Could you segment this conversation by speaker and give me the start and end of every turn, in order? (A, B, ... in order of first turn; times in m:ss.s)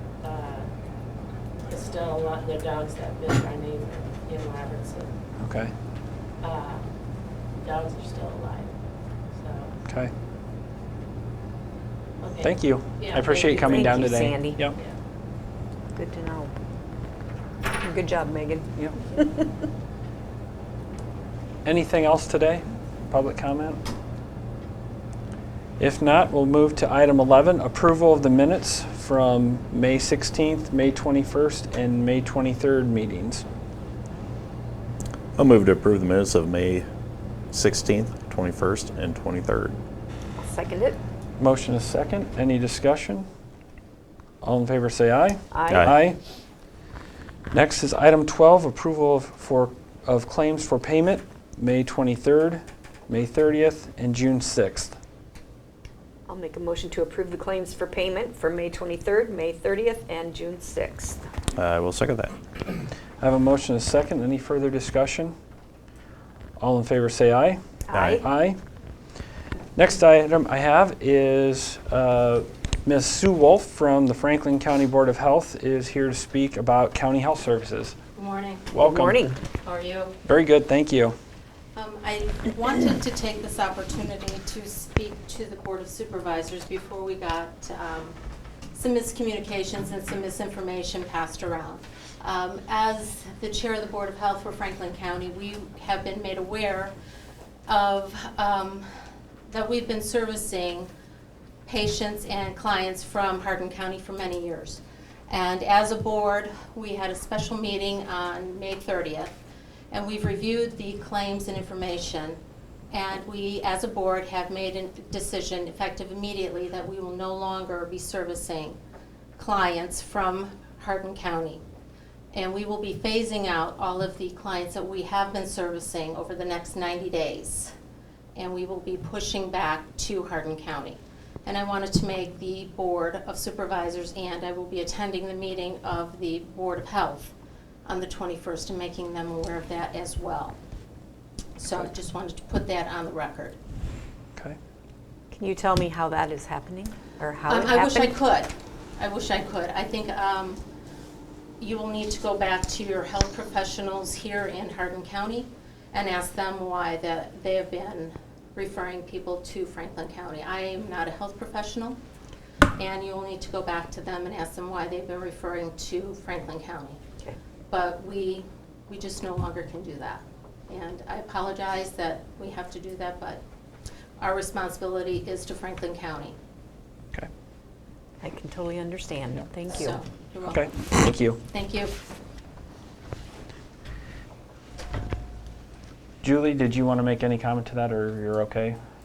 0:00.2-0:00.7 A
0:01.7-0:05.1 A
0:05.4-0:05.7 B
0:06.4-0:06.8 A
0:07.6-0:08.7 A
0:09.4-0:09.7 A
0:09.8-0:10.1 B
0:12.2-0:13.8 A
0:12.4-0:14.8 B
0:13.6-0:14.6 C
0:15.9-0:16.5 C
0:17.7-0:19.5 C
0:21.6-0:23.8 B
0:25.8-0:33.4 B
0:35.4-0:36.9 D
0:37.5-0:39.8 D
0:40.4-0:41.0 C
0:41.4-0:43.3 B
0:44.4-0:46.2 B
0:45.5-0:45.9 C
0:45.7-0:46.0 D
0:47.5-0:55.0 B
0:56.3-1:01.2 C
1:01.6-1:02.4 D
1:03.2-1:05.3 B
1:06.6-1:07.6 B
1:07.9-1:08.3 C
1:07.9-1:08.2 D
1:08.2-1:08.6 B
1:09.8-1:18.0 B
1:18.2-1:18.7 E
1:18.7-1:19.2 B
1:18.8-1:19.4 C
1:19.6-1:20.1 E
1:20.2-1:21.2 B
1:21.8-1:28.2 E
1:28.7-1:36.9 E
1:37.7-1:38.9 E
1:39.5-1:40.9 E
1:41.7-1:49.3 E
1:49.9-1:52.4 E
1:52.9-1:58.8 E
1:59.4-2:01.6 E
2:02.3-2:07.7 E
2:08.4-2:17.3 E
2:17.8-2:20.6 E
2:21.6-2:23.6 E
2:25.3-2:28.1 C
2:27.5-2:30.6 E
2:31.6-2:42.0 E
2:42.8-2:47.0 E
2:47.7-2:53.4 E
2:54.2-2:56.4 E
2:58.2-3:00.0 C
2:59.7-3:00.7 E
3:00.4-3:01.4 B
3:01.5-3:02.0 E
3:06.2-3:08.8 B